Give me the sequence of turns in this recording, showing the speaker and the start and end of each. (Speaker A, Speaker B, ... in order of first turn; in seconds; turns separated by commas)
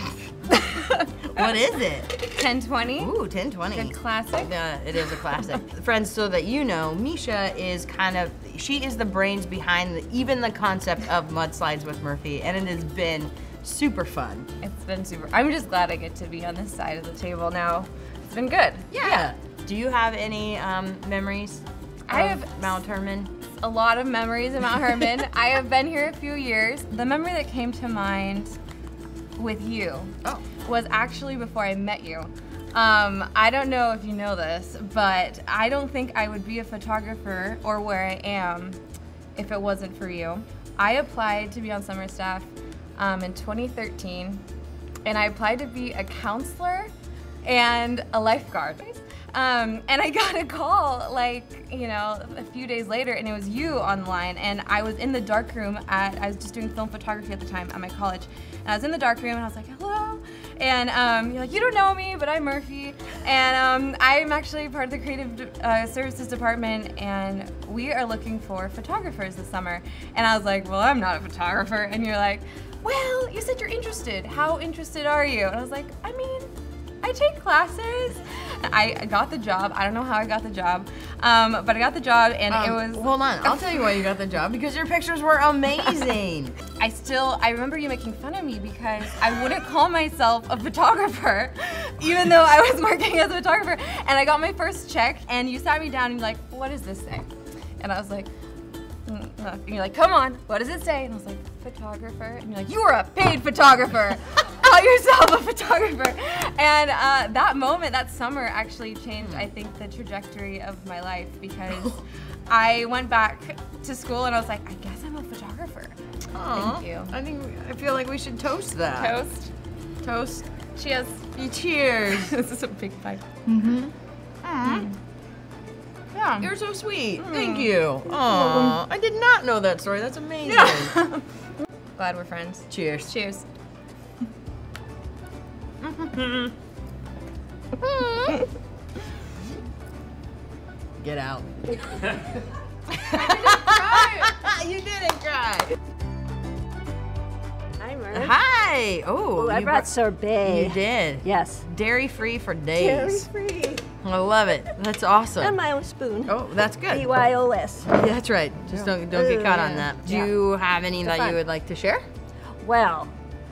Speaker A: 0.5-1.5, Speaker B: 1.2-2.2, Speaker A: 2.1-3.1, Speaker B: 3.0-14.5, Speaker A: 3.7-4.5, Speaker A: 14.6-19.3, Speaker B: 18.9-23.3, Speaker A: 22.1-22.8, Speaker A: 23.5-28.6, Speaker A: 29.4-38.8, Speaker A: 39.4-44.4, Speaker A: 45.0-46.9, Speaker A: 47.4-76.5, Speaker A: 77.0-83.9, Speaker B: 82.5-86.6, Speaker A: 86.8-97.3, Speaker A: 97.8-98.3, Speaker A: 99.1-116.0, Speaker B: 116.3-119.2, Speaker A: 116.5-117.2, Speaker A: 119.0-119.5, Speaker B: 120.0-120.5, Speaker A: 120.8-121.3, Speaker B: 121.3-122.3, Speaker A: 122.1-123.8, Speaker A: 124.5-124.9, Speaker B: 124.6-124.9, Speaker A: 126.1-126.5, Speaker B: 126.4-131.0, Speaker A: 127.2-128.8, Speaker A: 130.4-131.3, Speaker A: 132.0-133.5, Speaker B: 132.7-133.1, Speaker A: 136.0-136.5, Speaker B: 137.8-138.4, Speaker B: 141.0-142.2, Speaker B: 142.9-145.8, Speaker A: 143.1-144.3, Speaker C: 147.8-148.4, Speaker B: 148.1-153.3, Speaker C: 149.4-151.7, Speaker C: 152.8-153.9, Speaker B: 154.0-155.6, Speaker C: 155.4-158.0, Speaker B: 156.3-157.2, Speaker B: 157.9-162.1, Speaker C: 158.7-160.4, Speaker C: 161.0-161.4, Speaker C: 162.6-163.1